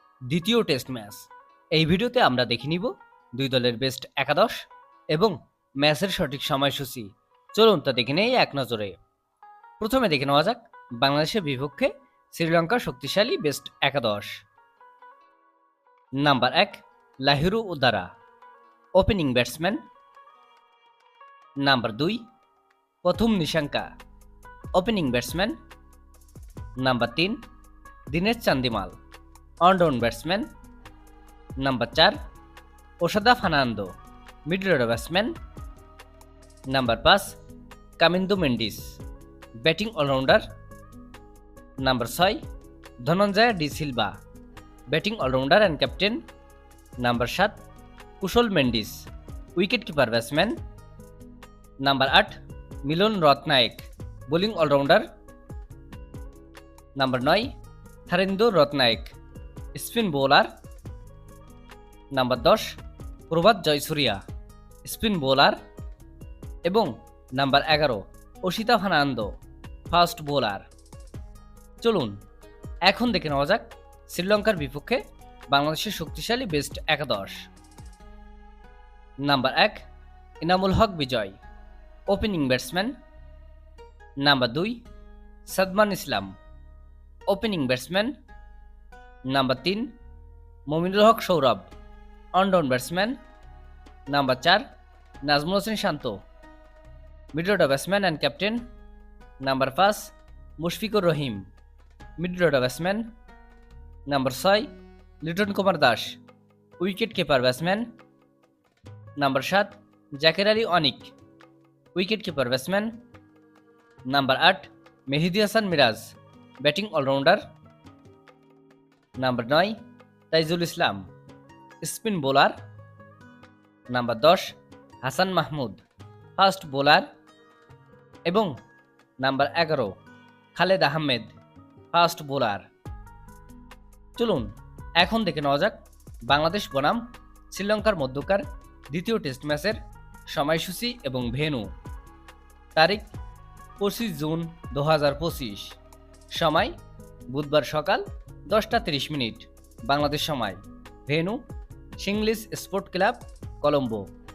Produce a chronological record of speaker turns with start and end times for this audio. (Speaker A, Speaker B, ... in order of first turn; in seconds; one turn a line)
Speaker A: 0.3-9.0
Speaker A: 9.8-14.3
Speaker A: 16.2-18.1
Speaker A: 18.9-19.8
Speaker A: 21.6-22.2
Speaker A: 23.0-23.9
Speaker A: 24.7-25.5
Speaker A: 26.8-27.4
Speaker A: 28.1-28.9
Speaker A: 29.6-30.5
Speaker A: 31.6-32.1
Speaker A: 33.0-33.9
Speaker A: 34.5-35.3
Speaker A: 36.7-37.4
Speaker A: 38.0-39.0
Speaker A: 39.6-40.4
Speaker A: 41.8-42.4
Speaker A: 43.0-44.1
Speaker A: 44.9-46.2
Speaker A: 47.0-47.6
Speaker A: 48.2-49.0
Speaker A: 49.5-50.6
Speaker A: 51.8-55.0
Speaker A: 57.0-57.5
Speaker A: 58.1-59.1
Speaker A: 59.7-60.5
Speaker A: 62.1-62.7
Speaker A: 63.3-64.2
Speaker A: 64.8-65.6
Speaker A: 66.7-69.3
Speaker A: 69.9-70.6
Speaker A: 71.8-72.2
Speaker A: 72.8-77.4
Speaker A: 79.2-79.8
Speaker A: 80.4-81.4
Speaker A: 82.1-82.9
Speaker A: 84.2-84.8
Speaker A: 85.5-86.3
Speaker A: 87.3-88.1
Speaker A: 89.3-89.9
Speaker A: 90.7-91.7
Speaker A: 92.3-93.2
Speaker A: 94.1-94.6
Speaker A: 95.2-96.2
Speaker A: 97.3-98.6
Speaker A: 99.4-101.4
Speaker A: 102.2-103.0
Speaker A: 104.1-104.7
Speaker A: 105.2-106.2
Speaker A: 106.8-107.9
Speaker A: 109.2-111.1
Speaker A: 111.9-113.0
Speaker A: 114.1-117.4
Speaker A: 119.2-119.8
Speaker A: 120.3-121.1
Speaker A: 121.8-122.5
Speaker A: 123.9-125.8
Speaker A: 126.4-127.1
Speaker A: 128.3-128.5
Speaker A: 129.2-129.9
Speaker A: 130.5-131.3
Speaker A: 131.9-132.7
Speaker A: 134.2-135.8
Speaker A: 136.3-141.7
Speaker A: 142.7-143.1
Speaker A: 143.8-145.8
Speaker A: 146.3-146.7
Speaker A: 147.3-151.4
Speaker A: 152.0-154.1